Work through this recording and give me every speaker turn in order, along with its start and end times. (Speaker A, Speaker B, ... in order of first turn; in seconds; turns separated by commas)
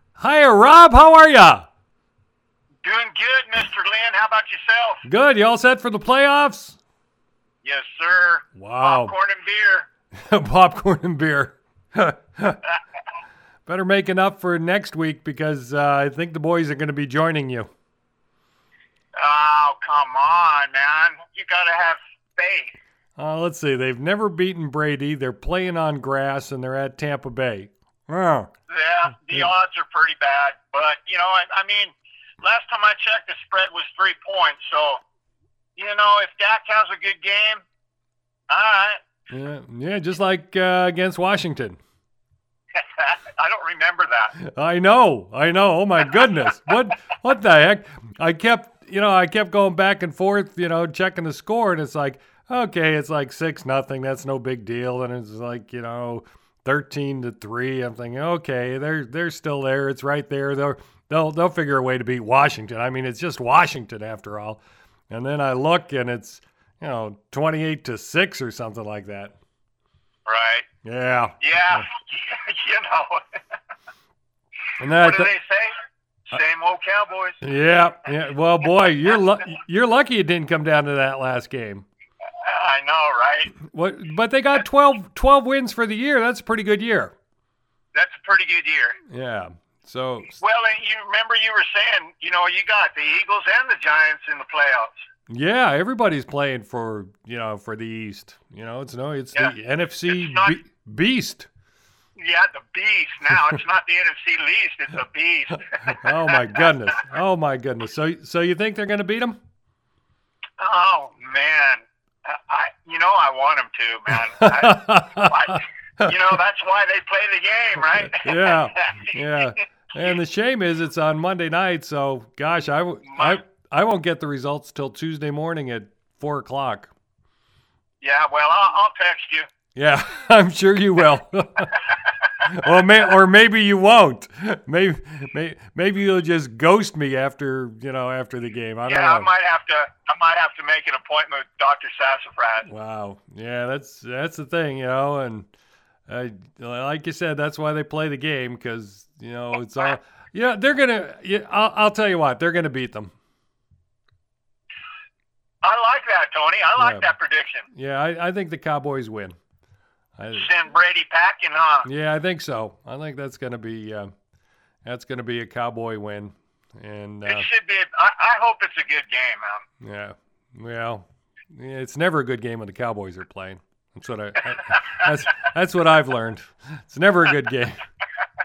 Speaker A: 0.2-1.6, Speaker B: 2.8-5.0, Speaker A: 5.0-6.8, Speaker B: 7.6-9.9, Speaker A: 8.6-9.1, Speaker A: 10.1-12.6, Speaker A: 13.7-17.7, Speaker B: 19.2-22.8, Speaker A: 23.2-28.5, Speaker B: 28.7-35.0, Speaker B: 35.8-37.6, Speaker B: 38.5-39.0, Speaker A: 39.3-41.8, Speaker B: 42.8-44.4, Speaker A: 44.4-69.3, Speaker B: 70.2-70.7, Speaker A: 70.8-71.8, Speaker B: 71.4-73.2, Speaker A: 74.8-75.3, Speaker B: 75.0-75.7, Speaker B: 76.3-77.4, Speaker A: 77.4-81.9, Speaker B: 82.4-83.5, Speaker A: 83.6-87.1, Speaker B: 87.9-89.0, Speaker A: 89.1-90.4, Speaker B: 90.3-94.9, Speaker A: 95.3-101.5, Speaker B: 100.1-100.6, Speaker B: 102.2-106.7, Speaker A: 106.0-109.4, Speaker B: 110.6-119.5, Speaker A: 114.4-116.1, Speaker A: 117.9-126.9, Speaker B: 123.0-123.4, Speaker B: 128.0-129.5, Speaker A: 129.7-131.7, Speaker A: 132.4-139.3, Speaker B: 138.9-142.7, Speaker A: 142.7-145.5, Speaker A: 146.1-153.1, Speaker B: 155.6-157.6, Speaker A: 156.8-157.1, Speaker A: 157.7-159.3, Speaker A: 160.2-160.5, Speaker B: 160.3-161.9, Speaker A: 161.8-164.1, Speaker A: 164.8-167.5, Speaker B: 167.2-169.6, Speaker A: 169.8-177.8